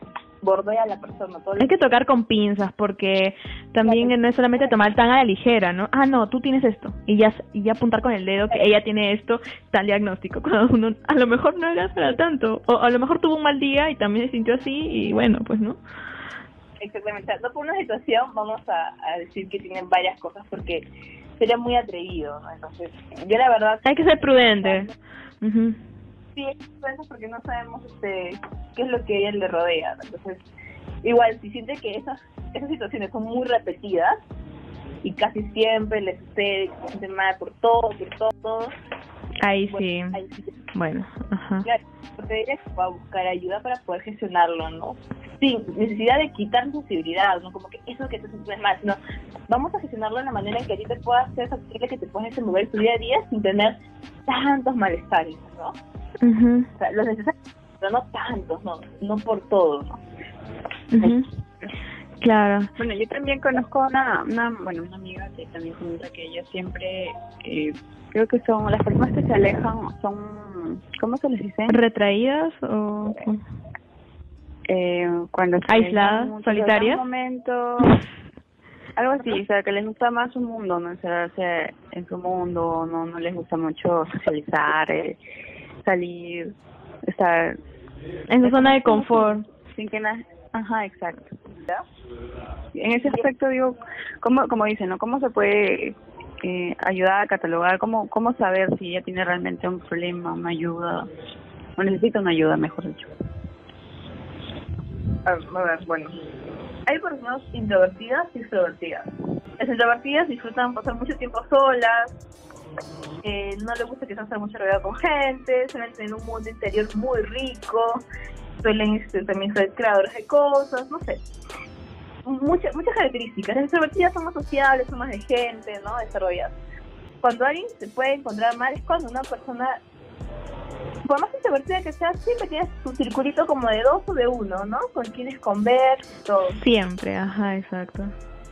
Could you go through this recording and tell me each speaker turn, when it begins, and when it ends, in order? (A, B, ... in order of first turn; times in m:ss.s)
0:00.4-0:01.7 A
0:01.6-0:15.8 B
0:03.8-0:04.7 A
0:16.8-0:20.8 A
0:21.4-0:24.9 A
0:23.8-0:24.9 B
0:25.4-0:25.8 B
0:26.4-0:30.4 A
0:31.0-0:34.2 A
0:35.0-0:38.7 A
0:39.4-0:40.2 B
0:39.7-0:40.5 A
0:40.7-0:41.7 B
0:41.6-0:55.8 A
0:56.2-0:56.7 B
0:56.8-1:00.0 A
1:00.9-1:01.2 B
1:01.0-1:01.7 C
1:02.2-1:02.7 B
1:02.8-1:11.8 C
1:11.7-1:13.4 B
1:14.7-1:18.0 C
1:15.7-1:17.0 B
1:19.0-1:25.2 C
1:25.8-1:27.6 C
1:28.3-1:29.4 B
1:28.4-1:31.3 C
1:32.7-1:41.1 C
1:41.8-1:43.1 C
1:45.2-1:46.1 A
1:46.8-1:49.1 A
1:49.6-1:52.1 A
1:53.2-1:58.0 A
1:58.6-2:01.2 A
2:02.2-2:06.5 A
2:07.2-2:09.8 A
2:11.0-2:16.6 A
2:16.6-2:18.1 B